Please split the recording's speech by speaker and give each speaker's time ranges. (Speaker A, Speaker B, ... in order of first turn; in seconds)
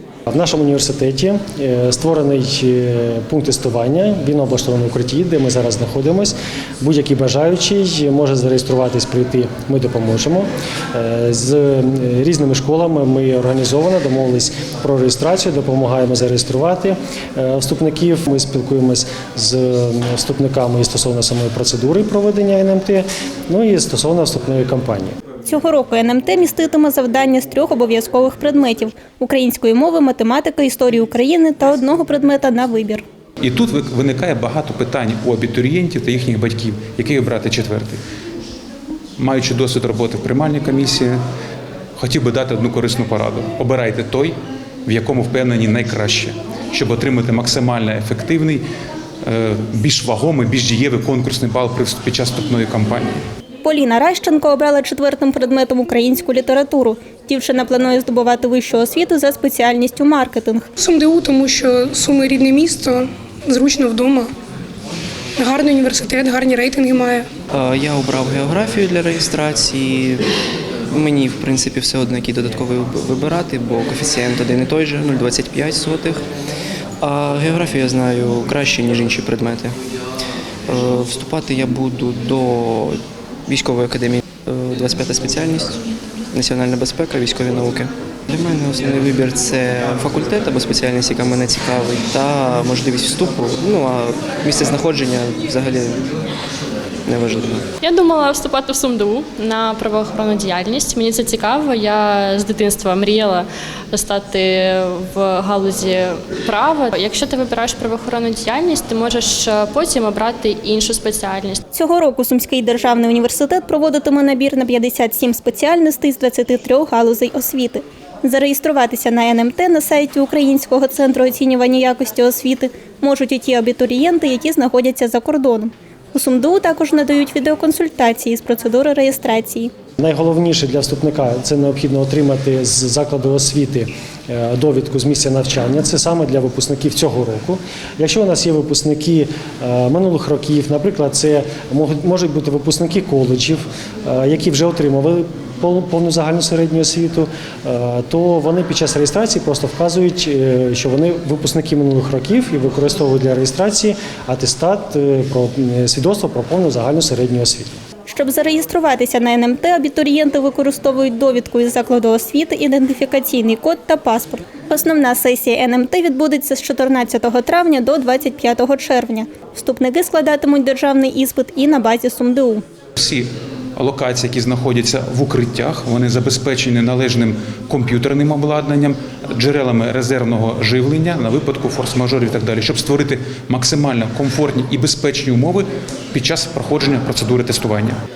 Speaker A: 0.3-25.1, 130.0-157.8
Speaker B: 25.5-33.0, 53.6-60.7, 111.7-129.7, 158.1-172.6
Speaker C: 33.4-38.0, 39.2-41.2, 42.0-44.3, 44.9-48.6, 49.2-53.2, 173.0-188.0
Speaker D: 60.8-64.3, 65.4-67.3
Speaker E: 67.5-70.3, 70.9-76.2, 77.0-79.8, 80.7-85.8, 86.3-96.1, 97.1-97.7
Speaker F: 97.8-111.6